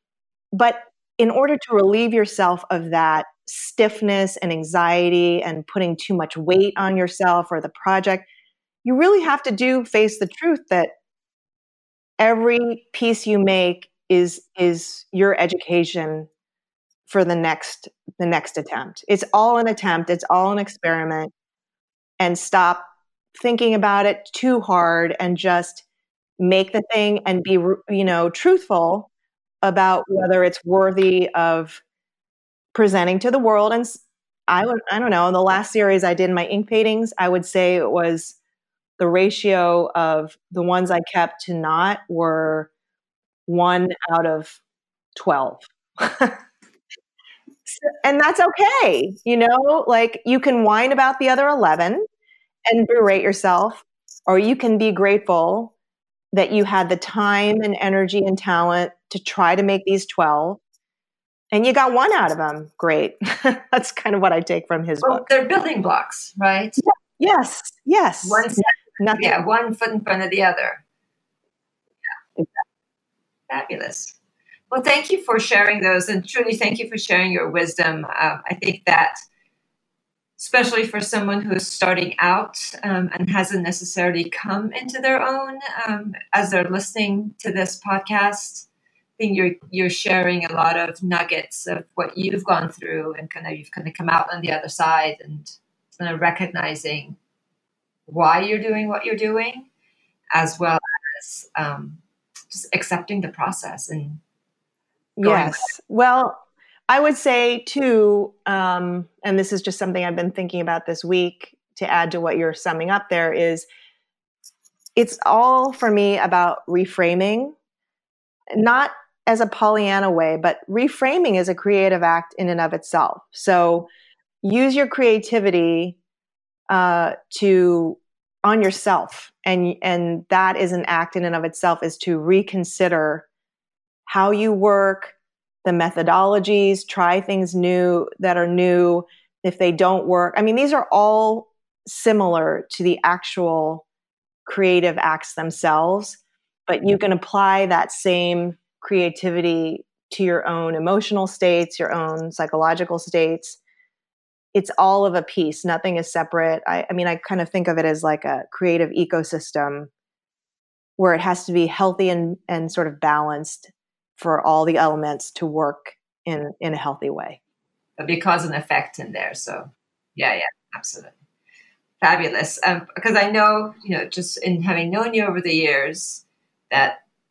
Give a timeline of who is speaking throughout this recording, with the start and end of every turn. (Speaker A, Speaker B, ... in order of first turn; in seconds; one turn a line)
Speaker A: 0.5-8.3
Speaker A: 8.8-10.9
Speaker A: 12.2-16.3
Speaker A: 17.1-21.3
Speaker A: 22.2-25.8
Speaker A: 26.4-29.1
Speaker A: 29.6-31.8
Speaker A: 32.7-38.4
Speaker A: 39.0-42.7
Speaker A: 43.5-44.6
Speaker A: 45.1-46.4
Speaker A: 47.7-52.0
Speaker A: 52.7-55.7
Speaker A: 56.3-60.6
Speaker A: 61.5-65.2
Speaker B: 65.0-66.8
Speaker A: 67.2-69.4
Speaker B: 68.2-70.8
Speaker B: 73.5-74.2
Speaker B: 74.7-79.2
Speaker B: 80.4-88.7
Speaker B: 89.2-97.2
Speaker B: 98.1-99.7
Speaker B: 100.3-104.2
Speaker A: 105.2-113.7
Speaker B: 105.2-105.7
Speaker A: 115.0-117.6
Speaker A: 118.5-123.9
Speaker A: 124.4-126.0
Speaker A: 126.7-133.3
Speaker A: 134.1-143.8
Speaker A: 144.5-153.6
Speaker A: 154.5-159.9
Speaker A: 161.0-167.4
Speaker B: 168.0-171.2
Speaker B: 172.0-177.0